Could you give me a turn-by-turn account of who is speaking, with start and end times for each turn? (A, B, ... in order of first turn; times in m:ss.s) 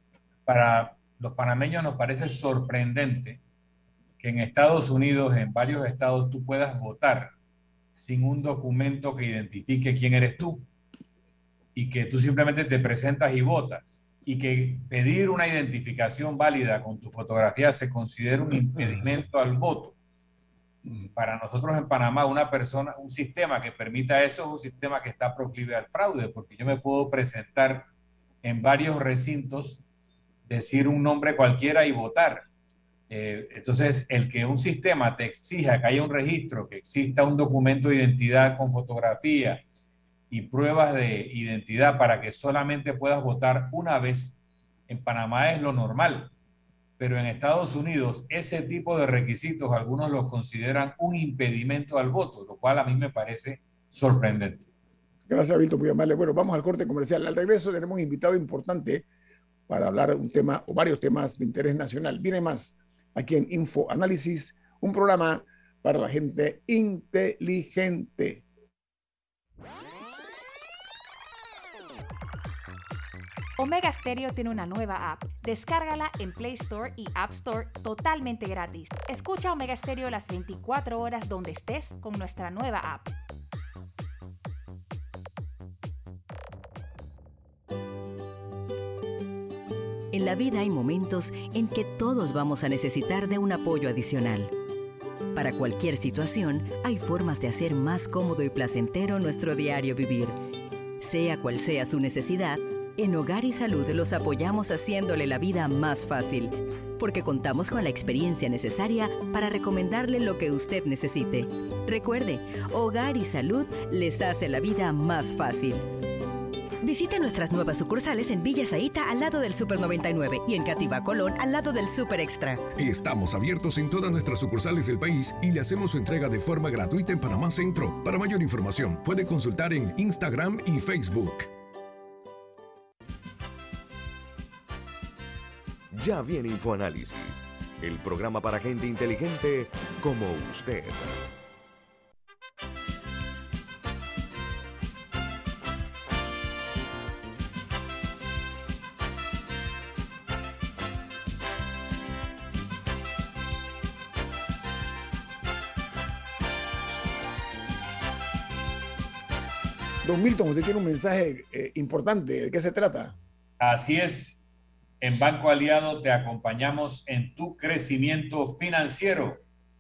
0:00.5-0:03.4 A
0:04.2-0:07.3 A
0:08.0-0:10.6 A
0:11.8-0:20.0 A
0:21.2-0:27.9 A
0:28.4-0:29.8 A
0:30.5-0:32.4 A
0:33.1-0:39.6 A
0:40.3-0:46.3 A
0:47.0-0:54.7 A
0:55.3-0:59.0 B
0:59.7-1:08.4 B
1:13.6-1:23.1 C
1:30.1-1:34.5 D
1:35.3-1:40.4 D
1:41.0-1:55.8 D
1:56.8-2:02.6 D
2:02.8-2:11.5 E
2:15.9-2:21.2 F
2:40.0-2:43.2 B
2:43.6-2:44.4 A
2:45.0-2:49.4 A